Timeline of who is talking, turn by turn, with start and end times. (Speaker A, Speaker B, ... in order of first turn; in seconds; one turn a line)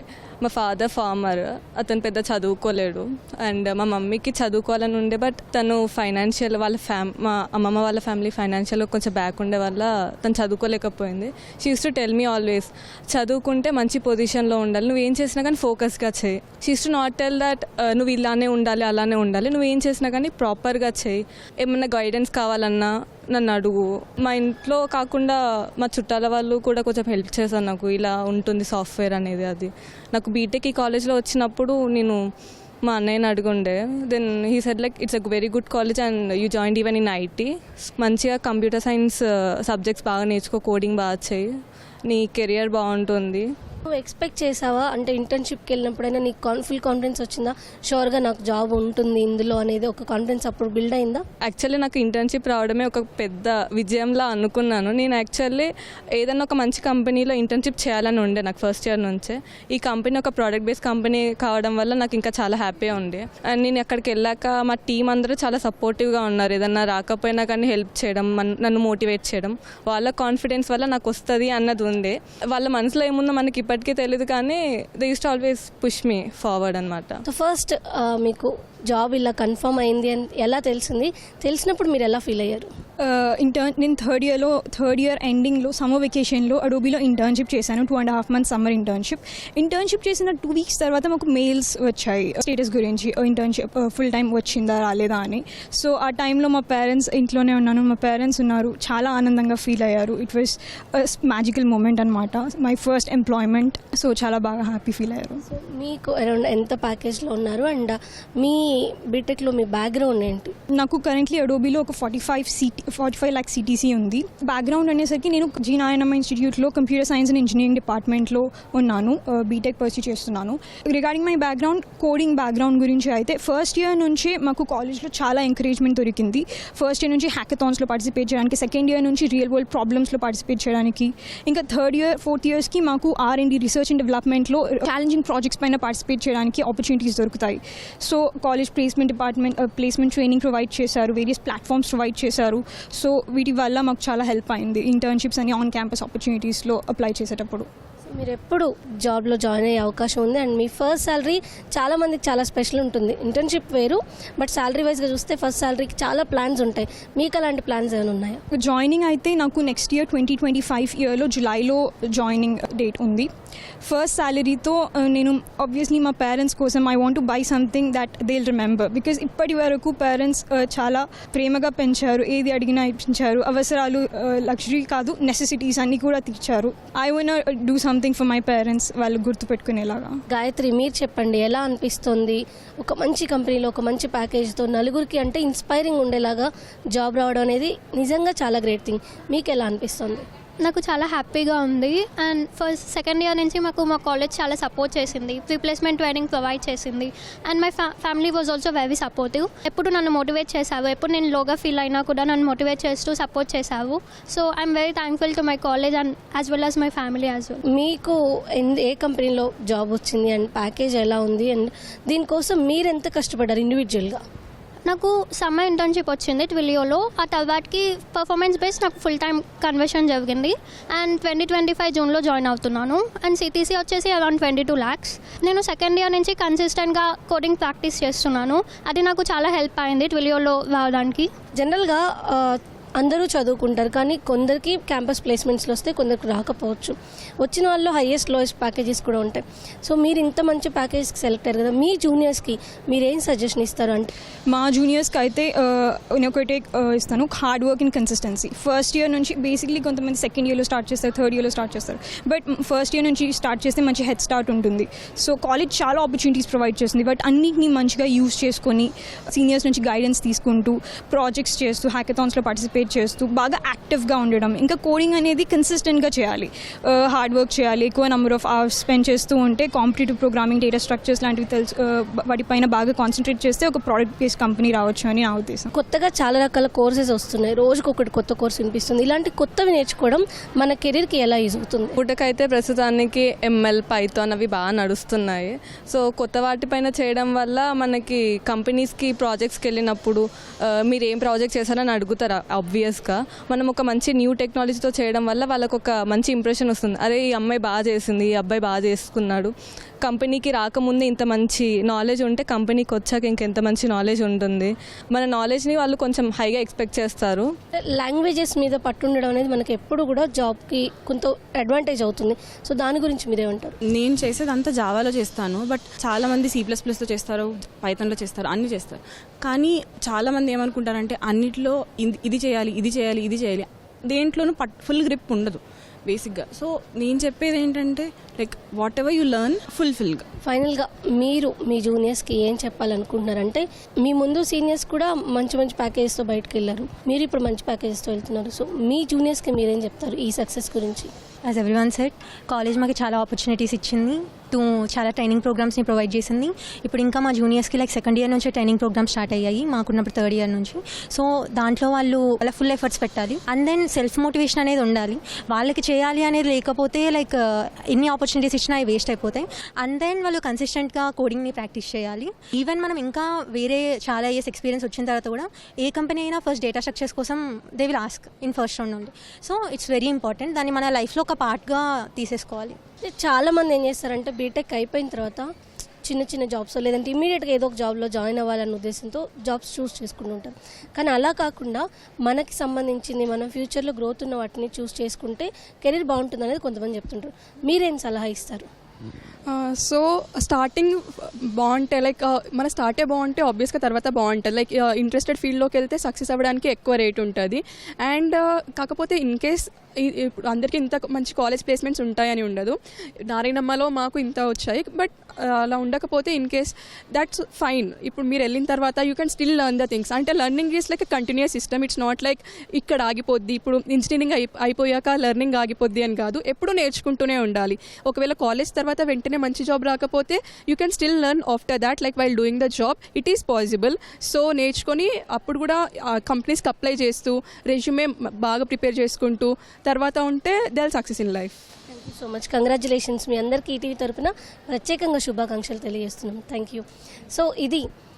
Speaker A: 0.4-32.2
Speaker A: 32.9-41.4
Speaker A: 42.1-43.5
Speaker B: 43.9-51.2
Speaker A: 51.4-77.2
Speaker B: 77.2-82.7
Speaker C: 83.0-105.4
Speaker B: 105.5-110.5
Speaker C: 110.7-147.7
Speaker B: 148.1-158.4
Speaker C: 158.5-163.3
Speaker C: 163.8-180.2
Speaker B: 180.3-190.2
Speaker D: 190.6-207.6
Speaker B: 207.7-214.2
Speaker D: 214.9-231.3
Speaker B: 231.6-244.1
Speaker C: 244.5-275.7
Speaker B: 275.7-281.9
Speaker A: 282.0-290.2
Speaker A: 290.9-299.5
Speaker A: 300.0-307.5
Speaker B: 307.9-313.8
Speaker E: 313.9-330.2
Speaker B: 330.4-341.1
Speaker F: 341.5-372.8
Speaker B: 373.0-375.5
Speaker B: 376.0-388.7
Speaker G: 389.5-402.8
Speaker G: 403.3-431.6
Speaker B: 431.9-437.8